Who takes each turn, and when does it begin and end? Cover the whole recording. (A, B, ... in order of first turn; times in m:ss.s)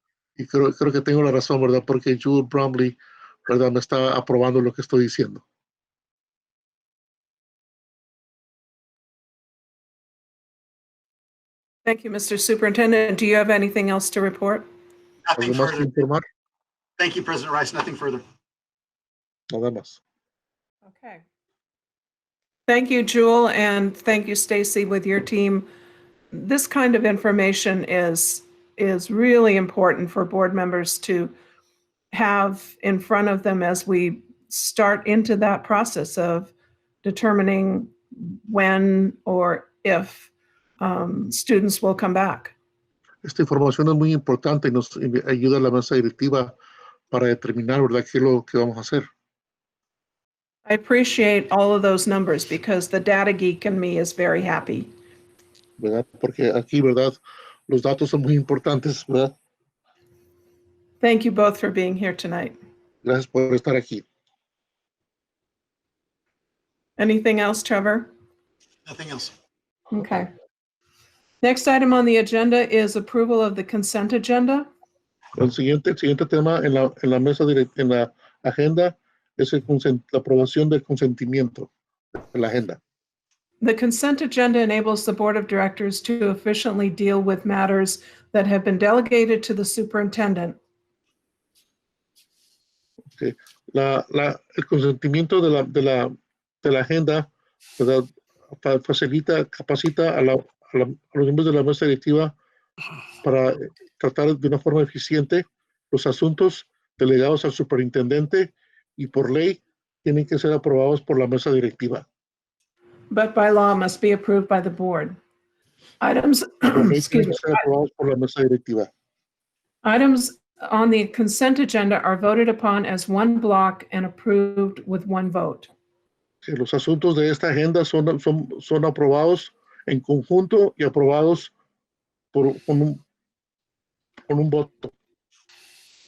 0:00.4-0:05.4 A
0:11.9-0:14.7 B
0:15.3-0:15.9 C
0:15.4-0:16.2 A
0:17.0-0:18.2 C
0:19.5-0:20.0 A
0:20.9-0:21.2 B
0:22.7-0:25.7 B
0:26.3-0:31.3 B
0:32.1-0:36.5 B
0:37.0-0:40.3 B
0:40.8-0:42.5 B
0:43.2-0:46.5 A
0:47.1-0:49.1 A
0:50.7-0:54.9 B
0:55.8-0:59.3 A
1:01.0-1:02.6 B
1:03.0-1:04.0 A
1:07.0-1:08.1 B
1:08.9-1:09.3 C
1:09.9-1:10.3 B
1:11.4-1:14.7 B
1:15.4-1:22.8 A
1:23.6-1:30.6 B
1:33.2-1:36.1 A
1:36.6-1:42.4 A
1:43.2-1:52.0 A
1:53.1-1:55.2 B
1:56.0-1:57.6 B
1:56.7-1:58.9 A
1:59.8-2:05.7 B
2:06.4-2:11.5 A
2:12.3-2:13.0 A
2:14.3-2:14.9 A